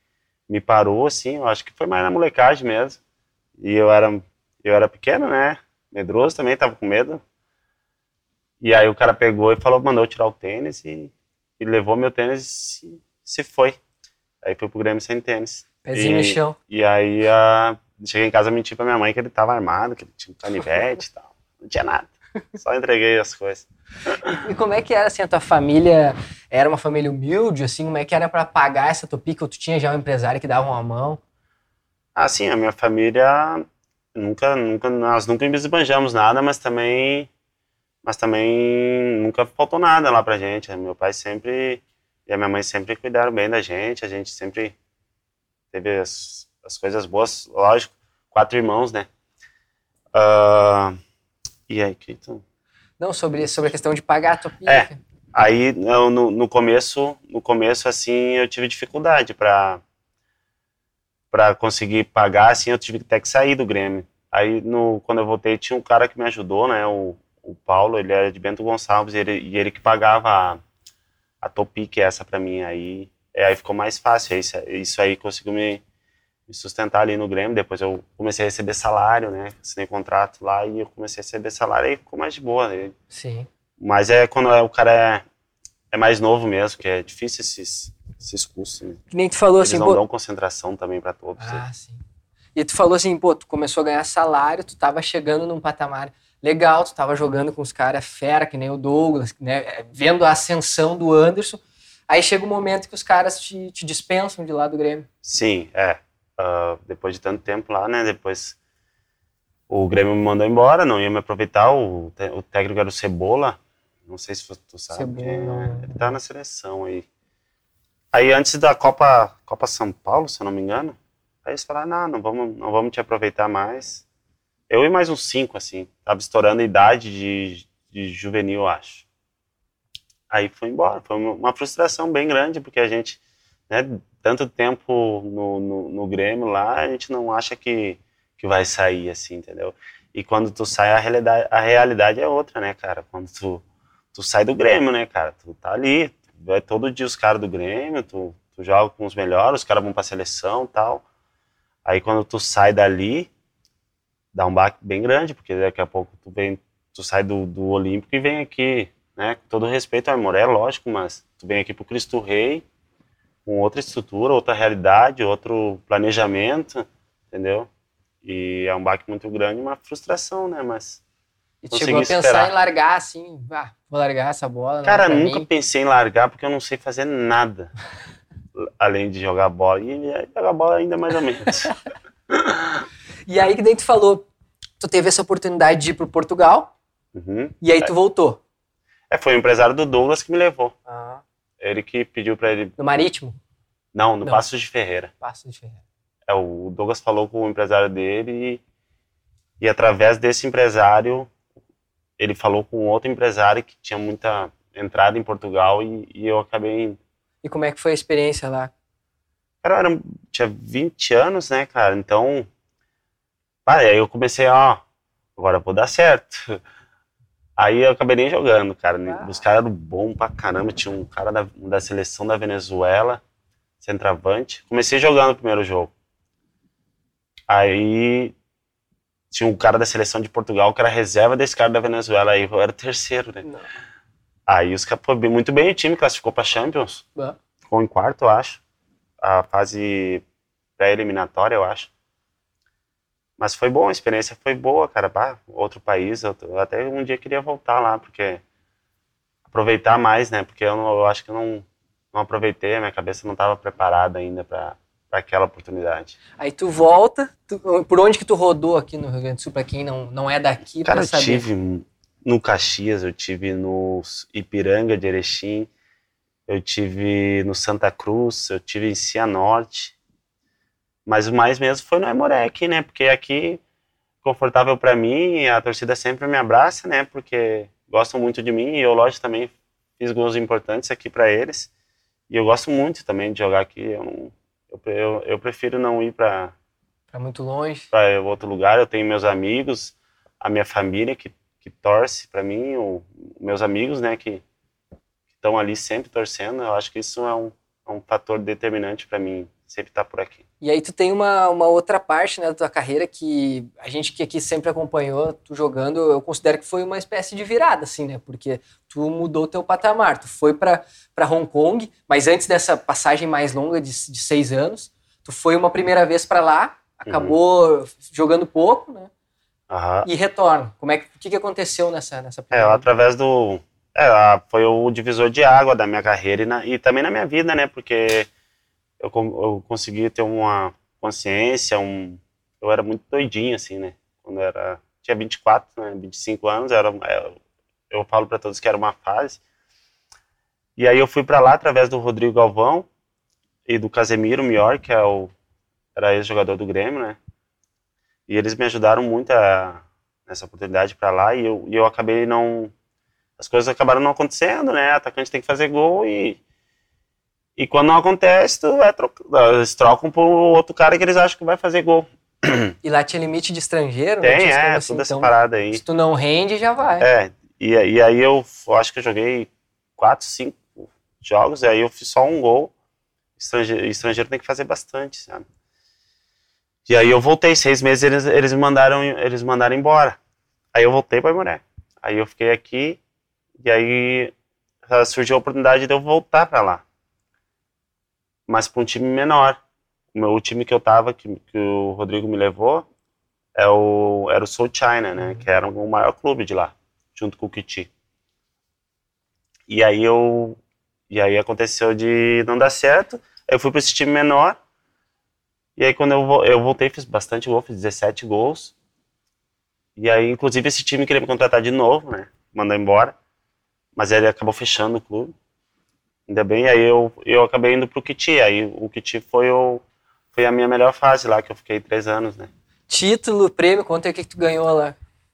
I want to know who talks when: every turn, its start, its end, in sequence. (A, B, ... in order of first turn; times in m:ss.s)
0:00.5-0:03.0 A
0:03.6-0:07.2 A
0:08.6-0:13.8 A
0:14.4-0:24.4 A
0:15.8-0:16.6 B
0:24.3-0:31.2 B
0:32.2-0:37.3 A
0:38.0-0:44.7 A
0:45.7-0:49.1 A
0:50.1-0:51.0 A
0:51.7-0:52.4 A
0:53.0-0:55.0 B
0:54.6-0:59.8 A
1:01.3-1:10.6 A
1:11.4-1:15.8 A
1:16.5-1:22.9 A
1:23.1-1:23.5 B
1:23.8-1:25.2 A
1:25.9-1:29.0 A
1:29.1-1:30.0 B
1:29.6-1:31.6 A
1:31.4-1:32.0 B
1:32.5-1:45.1 B
1:45.2-1:48.6 A
1:49.7-1:57.0 A
1:54.9-1:56.1 B
1:58.1-2:04.0 A
2:04.7-2:09.0 A
2:10.3-2:31.0 A
2:31.8-2:33.3 A
2:34.3-2:42.6 A
2:43.4-2:47.7 A
2:48.2-2:51.0 A
2:51.6-2:55.5 B
2:51.7-2:52.5 A
2:54.8-2:57.7 A
2:58.6-3:01.8 A
3:02.3-3:02.8 A
3:03.3-3:04.3 B
3:04.8-3:06.7 B
3:07.1-3:07.9 A
3:07.6-3:08.4 B
3:09.1-3:10.7 A
3:10.8-3:11.2 B
3:11.6-3:12.8 A
3:12.8-3:13.4 B
3:13.9-3:15.1 A
3:15.2-3:15.8 B
3:16.3-3:18.6 A
3:19.6-3:21.3 A
3:22.2-3:27.0 A
3:27.4-3:28.7 B
3:29.6-3:32.5 A
3:33.6-3:34.8 A
3:35.4-3:36.6 A
3:37.6-3:43.2 A
3:39.1-3:39.4 B
3:43.8-3:45.9 A
3:47.5-3:48.3 A
3:49.3-3:53.5 A
3:54.5-3:57.0 A
3:57.6-3:58.6 A
3:59.2-4:00.2 A
4:00.8-4:01.9 A
4:03.4-4:08.4 A
4:09.5-4:16.2 A
4:16.4-4:21.4 B
4:20.8-4:25.7 A
4:26.5-4:29.9 A
4:31.0-4:33.6 A
4:34.2-4:41.7 A
4:42.3-4:46.5 A
4:47.1-4:47.9 B
4:47.9-4:54.4 A
4:55.4-5:00.4 A
5:00.6-5:19.1 B
5:17.1-5:17.4 A
5:19.7-5:20.1 A
5:20.0-5:22.8 B
5:22.5-5:28.3 A
5:29.0-5:37.4 A
5:37.9-5:39.4 A
5:40.8-5:42.9 A
5:43.7-5:45.3 A
5:45.9-5:47.2 A
5:48.3-5:52.7 A
5:53.4-5:56.4 A
5:57.6-6:02.7 A
6:02.8-6:07.1 B
6:04.2-6:05.8 A
6:07.0-6:12.7 A
6:13.4-6:15.4 A
6:16.9-6:20.2 A
6:20.7-6:23.0 A
6:23.6-6:24.3 A
6:24.9-6:26.8 A
6:28.5-6:29.6 A
6:30.1-6:32.8 A
6:33.5-6:37.9 A
6:39.7-6:40.6 A
6:41.1-6:44.6 A
6:45.8-6:48.7 A
6:50.0-6:53.1 A
6:54.0-6:55.3 A
6:56.3-6:59.8 A
7:00.3-7:02.5 A
7:02.9-7:05.0 B